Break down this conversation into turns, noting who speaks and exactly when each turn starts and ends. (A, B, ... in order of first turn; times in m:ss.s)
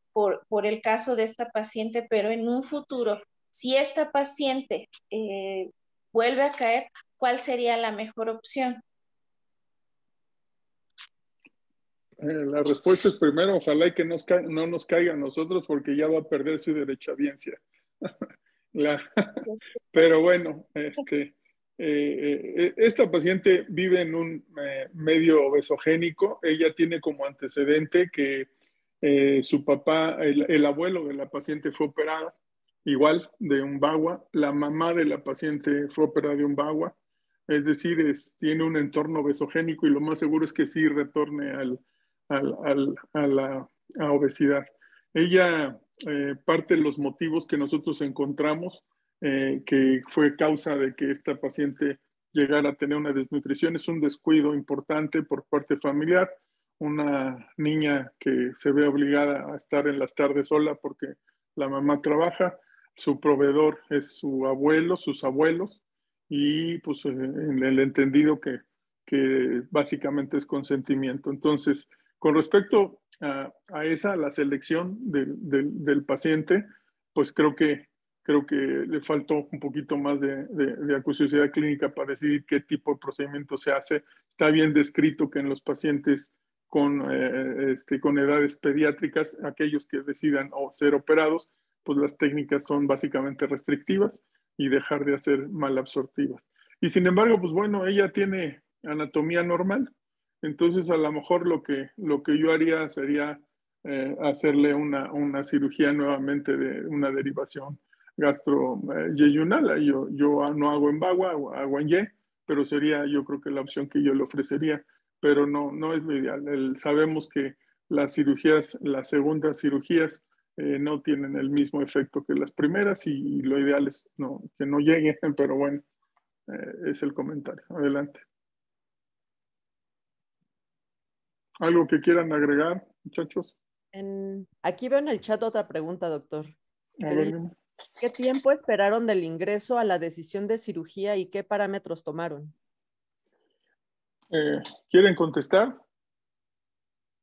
0:00.1-0:08.8 A
0:12.2-0:18.1 B
0:18.7-0:28.5 B
0:29.0-0:32.3 B
0:32.8-0:36.9 B
0:37.5-2:05.8 B
2:06.5-2:08.2 B
2:11.6-2:13.5 B
2:13.9-2:16.6 C
2:17.0-2:17.5 B
2:17.1-2:17.4 C
2:18.0-2:22.5 C
2:24.3-2:25.8 B